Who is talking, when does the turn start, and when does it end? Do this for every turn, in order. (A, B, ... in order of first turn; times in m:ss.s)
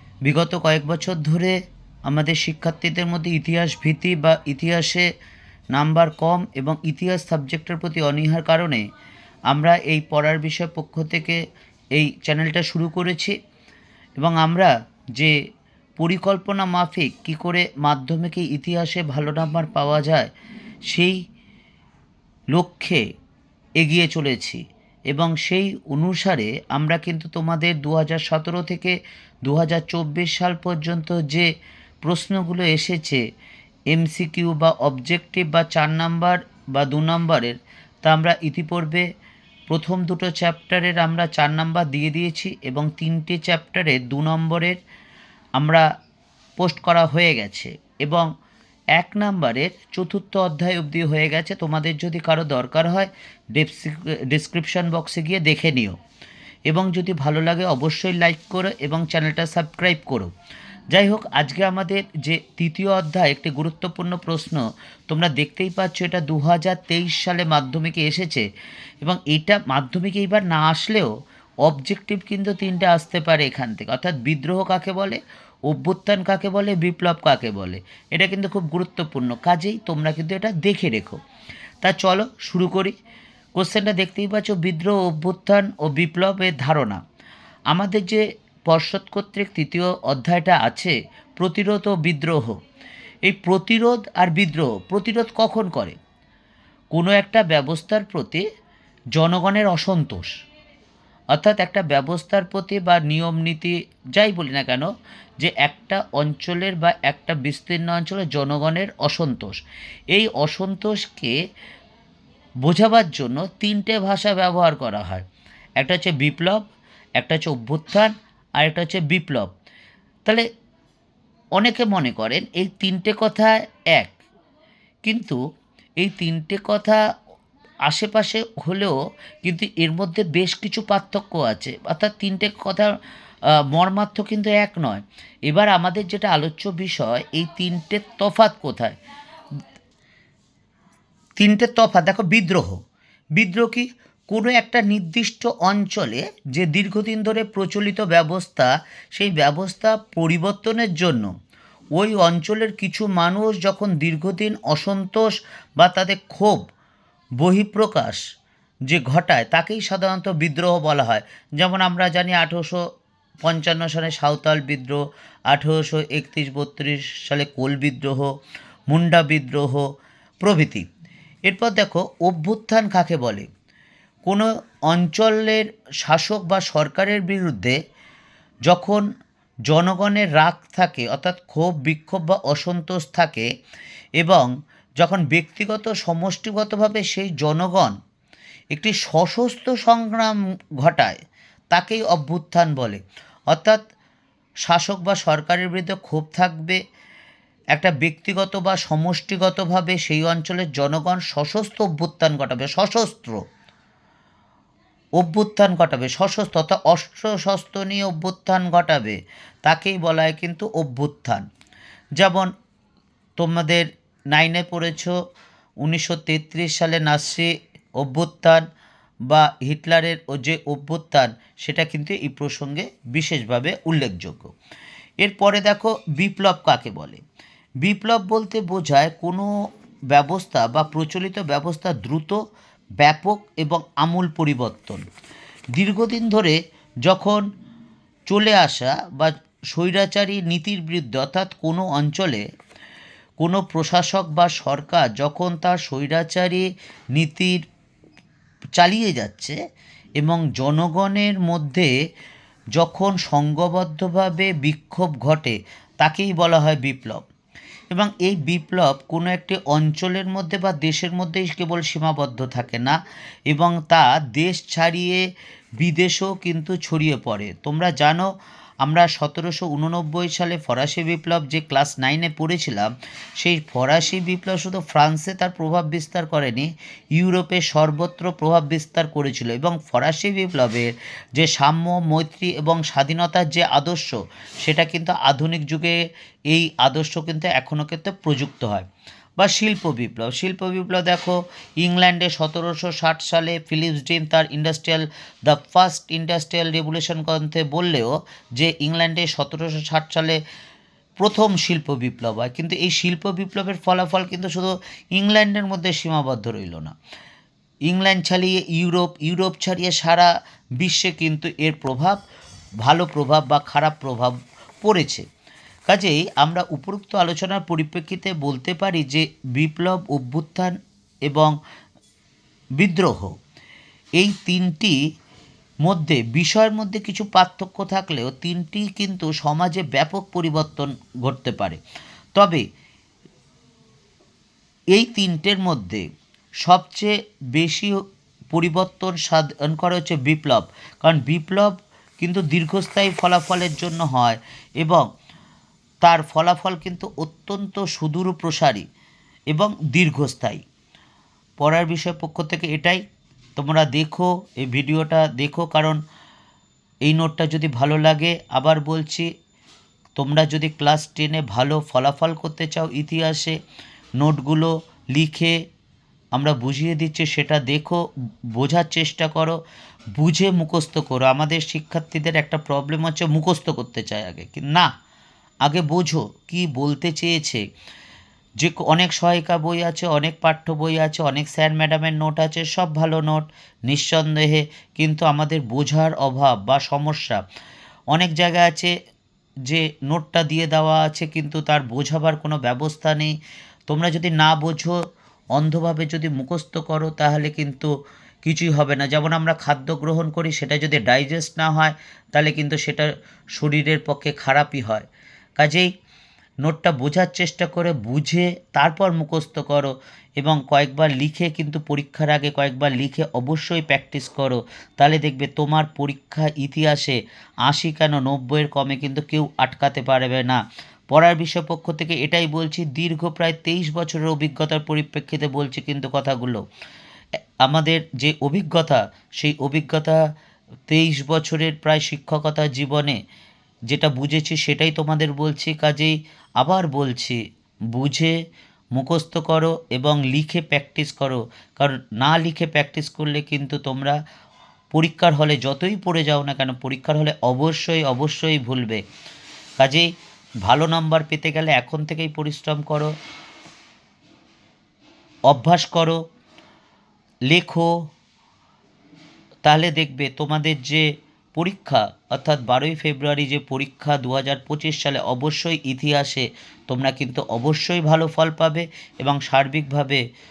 0:00.3-0:01.6 A
0:02.1-0:05.1 A
0:05.7-0:08.8 A
0:09.5-0:11.4 A
0:12.0-0:13.4 A
0:14.2-0:15.4 A
0:16.0-0:20.3 A
0:20.9-0:21.2 A
0:22.5-0:23.0 A
0:23.8-0:31.5 A
0:32.0-0:33.2 A
0:33.9-0:39.1 A
0:39.7-0:44.8 A
0:45.6-0:45.8 A
0:46.6-0:48.3 A
0:49.0-0:56.0 A
0:56.7-1:00.3 A
1:00.9-1:08.5 A
1:09.0-1:11.1 A
1:11.6-1:21.2 A
1:21.8-1:22.9 A
1:23.6-1:27.0 A
1:27.7-1:32.6 A
1:33.3-1:36.0 A
1:36.9-1:38.4 A
1:39.2-1:40.4 A
1:41.3-1:49.6 A
1:50.1-1:51.3 A
1:52.6-1:55.2 A
1:55.8-1:56.6 A
1:57.2-1:59.5 A
2:01.6-2:04.1 A
2:05.0-2:05.4 A
2:06.0-2:07.0 A
2:07.9-2:12.9 A
2:13.7-2:19.0 A
2:21.4-2:22.8 A
2:23.4-2:31.3 A
2:32.0-2:36.6 A
2:37.4-2:38.2 A
2:38.9-2:42.8 A
2:43.4-2:45.0 A
2:45.5-2:48.3 A
2:48.9-2:49.9 A
2:50.4-2:50.9 A
2:51.5-2:53.5 A
2:54.3-2:57.8 A
2:58.7-2:59.0 A
2:59.7-3:03.5 A
3:04.2-3:08.0 A
3:08.7-3:11.2 A
3:11.7-3:13.0 A
3:13.5-3:13.8 A
3:14.7-3:16.8 A
3:17.8-3:23.4 A
3:25.2-3:31.5 A
3:32.2-3:32.5 A
3:33.4-3:35.1 A
3:35.8-3:38.6 A
3:39.3-3:44.5 A
3:45.2-3:47.2 A
3:47.8-3:49.5 A
3:50.1-3:52.4 A
3:53.0-3:55.0 A
3:55.8-3:57.4 A
3:58.3-4:02.4 A
4:03.4-4:07.6 A
4:08.8-4:09.6 A
4:10.2-4:11.9 A
4:12.8-4:17.2 A
4:17.9-4:23.0 A
4:23.5-4:25.2 A
4:25.8-4:28.3 A
4:28.8-4:46.0 A
4:46.5-4:48.9 A
4:49.4-5:00.4 A
5:01.2-5:06.9 A
5:07.9-5:12.2 A
5:12.8-5:15.2 A
5:15.9-5:20.8 A
5:21.3-5:21.5 A
5:22.8-5:23.3 A
5:24.2-5:25.0 A
5:25.8-5:31.8 A
5:32.4-5:32.6 A
5:34.9-5:36.1 A
5:36.6-5:38.0 A
5:38.5-5:45.1 A
5:46.0-5:48.9 A
5:49.5-5:50.6 A
5:51.6-5:53.0 A
5:53.6-5:56.0 A
5:57.1-5:59.3 A
6:00.2-6:03.6 A
6:04.2-6:05.6 A
6:06.4-6:08.0 A
6:08.5-6:09.6 A
6:10.2-6:14.9 A
6:15.6-6:17.6 A
6:18.6-6:27.4 A
6:28.1-6:28.9 A
6:29.7-6:33.3 A
6:33.9-6:35.0 A
6:35.6-6:37.9 A
6:38.4-6:45.1 A
6:45.6-6:45.9 A
6:46.6-7:06.6 A
7:07.6-7:10.2 A
7:10.9-7:13.2 A
7:13.9-7:17.4 A
7:17.9-7:18.3 A
7:19.0-7:24.2 A
7:24.9-7:29.0 A
7:29.8-7:30.1 A
7:30.6-7:33.1 A
7:35.5-7:36.2 A
7:37.5-7:37.9 A
7:39.7-7:50.2 A